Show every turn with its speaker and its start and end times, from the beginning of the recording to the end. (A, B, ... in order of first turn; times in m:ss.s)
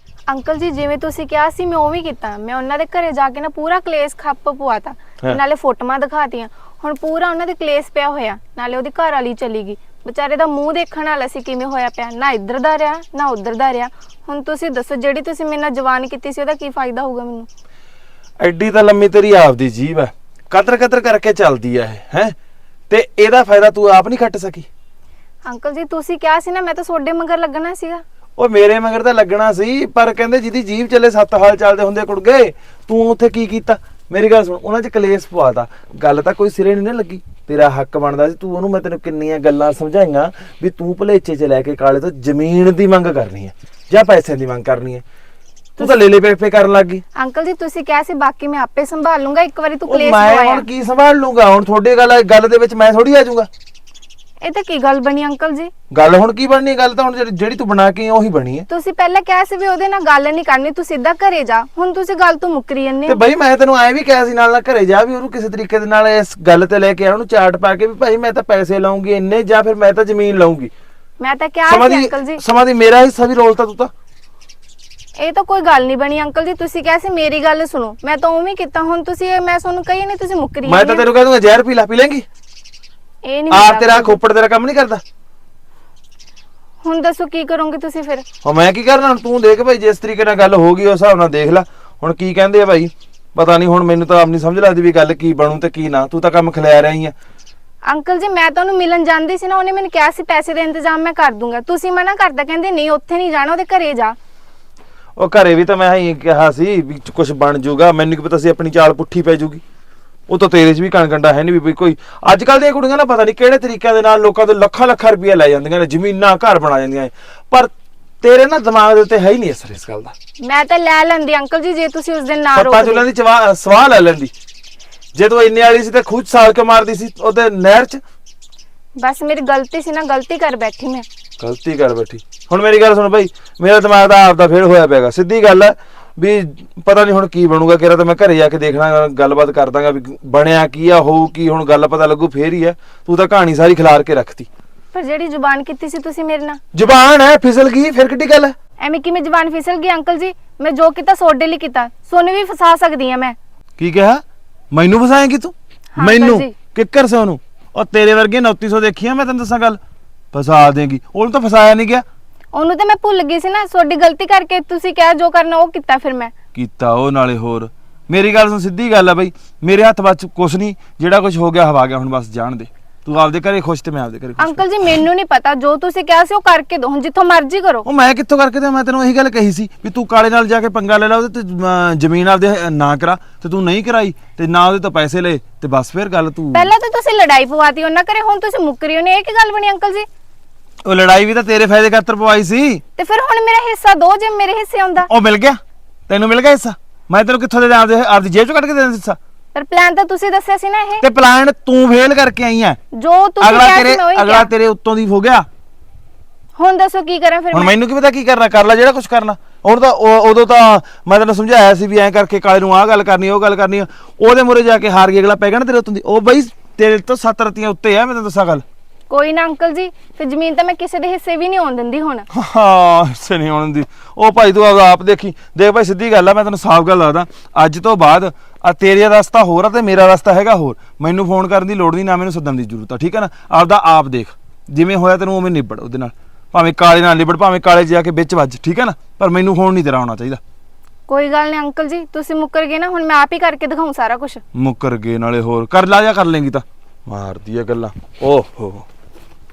0:00.3-0:17.5 A
0:18.4-0:22.3 B
0:22.9-0:24.7 B
0:25.4-0:28.0 A
0:28.4-0:45.0 B
0:45.8-0:47.0 B
0:47.2-0:50.7 A
0:49.8-0:53.5 B
0:54.4-0:55.7 A
0:55.9-0:58.6 B
0:58.7-1:03.2 A
1:03.0-1:10.7 B
1:11.2-1:12.4 A
1:11.6-1:13.9 B
1:15.2-1:21.1 A
1:20.6-1:22.2 B
1:23.2-1:24.2 A
1:23.5-1:25.0 B
1:26.8-1:28.2 A
1:28.4-1:37.1 B
1:37.9-1:44.2 A
1:45.2-1:49.6 B
1:50.3-2:00.1 B
2:00.4-2:03.0 A
2:02.5-2:04.3 B
2:05.1-2:08.0 B
2:09.0-2:11.0 A
2:11.4-2:24.5 B
2:24.9-2:26.6 A
2:26.7-2:28.5 B
2:28.8-2:33.4 A
2:33.8-2:39.8 B
2:36.0-2:36.6 A
2:40.3-2:42.0 B
2:42.5-2:46.3 A
2:46.5-2:55.0 B
2:54.4-2:57.8 A
2:57.8-3:06.7 B
3:06.5-3:10.1 A
3:10.8-3:12.8 B
3:13.0-3:15.1 A
3:15.1-3:19.2 B
3:19.5-3:21.0 A
3:21.0-3:22.8 B
3:22.9-3:24.5 A
3:23.4-3:25.5 B
3:26.6-3:27.7 A
3:27.5-3:38.6 B
3:39.1-3:42.2 A
3:42.3-4:00.4 B
4:01.1-4:04.4 A
4:04.5-4:08.8 B